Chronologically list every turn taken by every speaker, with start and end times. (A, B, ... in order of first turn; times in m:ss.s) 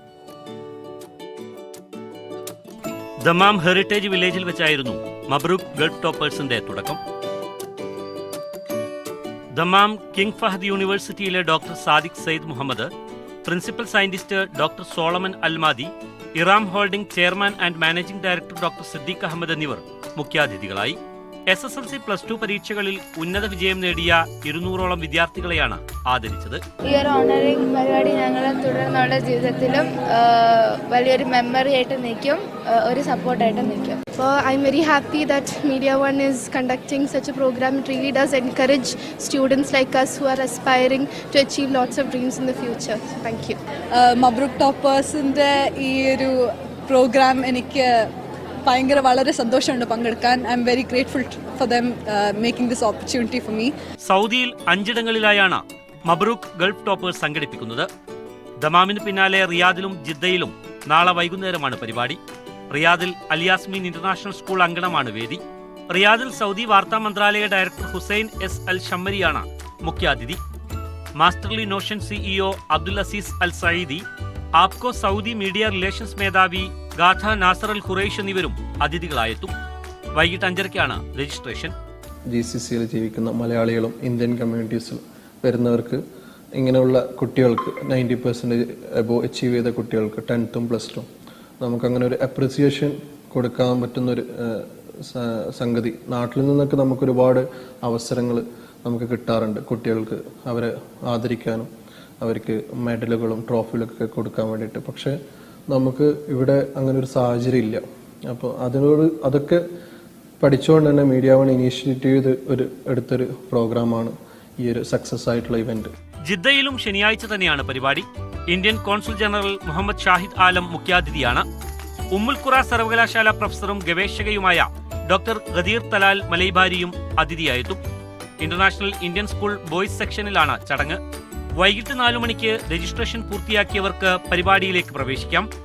0:03.2-0:07.0 A
0:09.5-0:12.9 A
0:13.4-0:21.0 A
0:21.5-0:26.6 A
0:26.8-0:34.0 B
0:34.1-0:43.6 C
0:43.9-0:48.0 D
0:48.6-0:53.7 D
0:54.0-0:57.9 A
0:58.6-1:02.2 A
1:02.7-1:10.4 A
1:11.2-1:14.0 A
1:14.6-1:19.5 A
1:20.1-1:21.7 A
1:22.3-1:26.0 E
1:26.5-1:31.1 E
1:31.6-1:41.7 E
1:42.2-1:45.2 E
1:45.7-1:49.6 E
1:50.4-1:55.9 E
1:56.3-2:01.4 A
2:02.1-2:07.8 A
2:08.4-2:11.0 A
2:11.6-2:15.5 A